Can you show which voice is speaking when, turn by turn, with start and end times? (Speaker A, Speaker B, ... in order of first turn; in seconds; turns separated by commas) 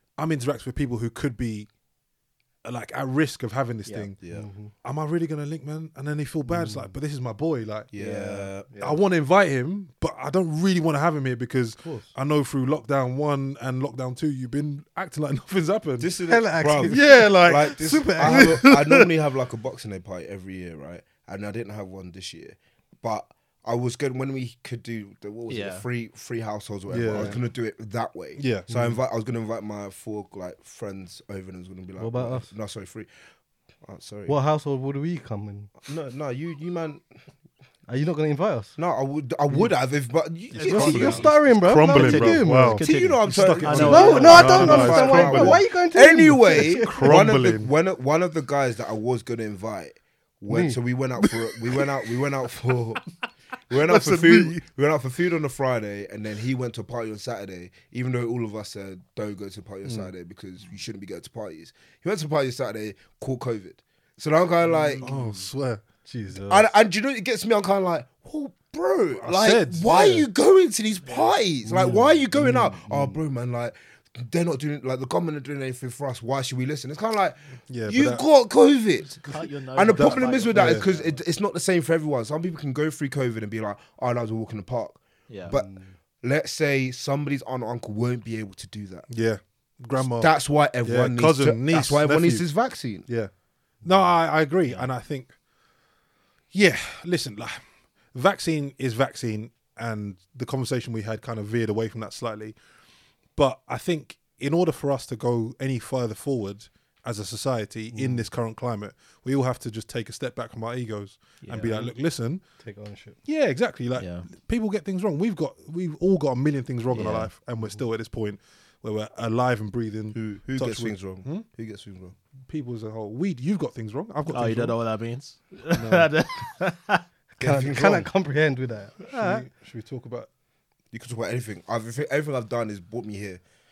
Speaker A: 0.2-1.7, Speaker A: 2.6-4.2, Speaker B: 4.2-4.5, Speaker C: 4.3-4.7, Speaker A: 4.8-7.9, Speaker C: 6.5-6.9, Speaker B: 7.9-9.0, Speaker C: 8.0-8.5, Speaker A: 8.8-16.1, Speaker C: 11.8-12.1, Speaker B: 16.0-33.1, Speaker C: 16.2-18.6, Speaker A: 16.8-19.1, Speaker D: 25.5-25.8, Speaker A: 26.9-27.4, Speaker A: 28.4-28.7, Speaker C: 28.7-29.0, Speaker C: 32.0-32.5, Speaker B: 33.8-34.3, Speaker C: 34.3-35.7, Speaker B: 35.8-37.0, Speaker C: 37.9-38.7, Speaker B: 38.8-41.4, Speaker A: 40.5-45.6, Speaker C: 40.6-42.8, Speaker D: 41.8-45.0, Speaker B: 42.8-53.0, Speaker C: 43.9-47.2, Speaker A: 46.6-47.7, Speaker C: 50.5-50.8, Speaker A: 51.3-51.9, Speaker B: 53.7-65.1, Speaker A: 53.8-54.6, Speaker C: 64.7-65.4, Speaker A: 65.0-65.8, Speaker C: 66.0-66.7, Speaker B: 66.4-79.2, Speaker A: 69.2-70.2, Speaker C: 71.6-73.2, Speaker A: 77.7-78.2, Speaker D: 79.0-81.2, Speaker B: 79.7-85.7, Speaker A: 79.9-80.8, Speaker D: 85.3-85.6, Speaker C: 85.5-85.9, Speaker B: 86.2-89.0, Speaker A: 89.1-92.5, Speaker B: 90.0-93.1, Speaker A: 93.0-93.3, Speaker A: 93.8-95.3, Speaker A: 96.5-97.6, Speaker A: 98.1-102.5, Speaker A: 103.3-112.4, Speaker C: 107.9-108.3, Speaker D: 111.4-111.9, Speaker C: 112.6-113.2, Speaker A: 113.2-121.5, Speaker D: 114.0-114.3, Speaker D: 116.9-117.3, Speaker B: 120.1-122.1, Speaker A: 122.4-124.8, Speaker D: 124.3-127.0, Speaker A: 125.7-126.1, Speaker C: 127.4-129.4, Speaker B: 127.4-128.1, Speaker A: 129.0-130.3, Speaker B: 130.9-133.4